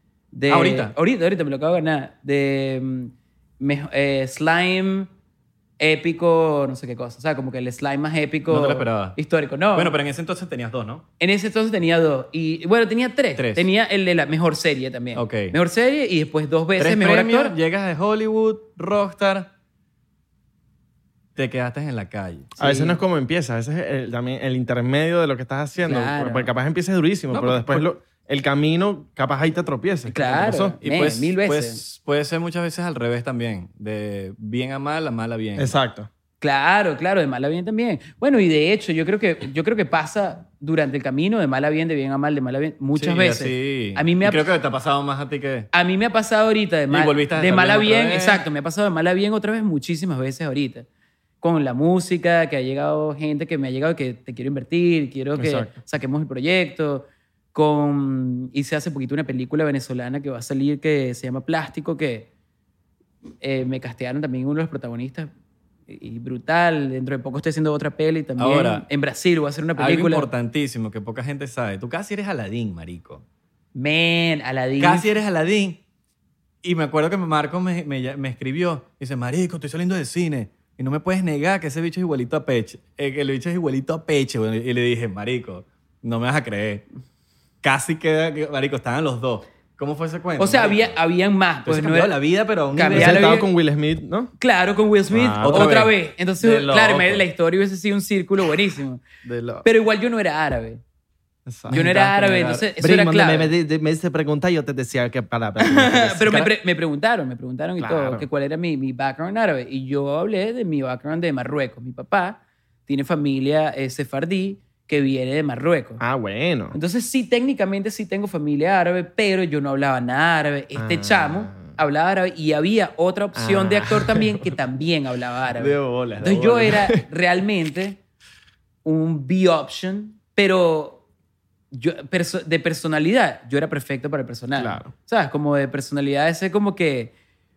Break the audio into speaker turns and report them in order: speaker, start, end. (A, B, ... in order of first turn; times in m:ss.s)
0:00.3-0:05.1 A
0:00.5-0:00.9 B
0:05.8-0:09.9 A
0:08.5-0:09.2 B
0:09.7-0:11.0 B
0:11.2-0:17.6 A
0:13.4-0:13.7 B
0:15.1-0:15.6 B
0:16.8-0:19.5 B
0:21.4-0:22.5 B
0:22.6-0:23.0 A
0:22.6-0:30.8 C
0:25.8-0:26.5 A
0:27.3-0:27.9 B
0:30.1-0:31.8 A
0:30.8-0:35.8 B
0:35.6-0:36.1 C
0:36.4-0:44.5 A
0:42.9-0:45.7 B
0:45.7-0:50.9 A
0:46.9-0:48.4 B
0:51.4-1:02.3 A
0:55.4-0:55.7 C
1:03.4-1:05.3 A
1:05.9-1:10.3 A
1:08.4-1:08.8 B
1:09.8-1:13.2 B
1:13.8-1:15.1 A
1:14.8-1:15.8 B
1:16.6-1:26.8 B
1:27.6-1:31.0 B
1:30.4-1:32.2 A
1:31.6-1:33.4 B
1:32.7-1:33.5 A
1:32.9-1:34.3 C
1:34.4-1:39.0 A
1:35.1-1:35.8 C
1:35.4-1:37.2 B
1:39.2-1:39.6 B
1:39.6-1:40.8 A
1:41.5-1:41.8 C
1:41.7-1:42.7 B
1:41.7-1:43.5 A
1:42.8-1:46.5 C
1:45.6-1:56.0 A
1:47.8-1:48.3 C
1:56.0-1:56.8 C
1:56.7-2:08.0 A
2:00.8-2:01.8 C
2:03.4-2:04.5 C
2:05.5-2:07.0 C
2:08.8-2:11.0 A
2:11.7-2:17.1 A
2:14.6-2:14.9 C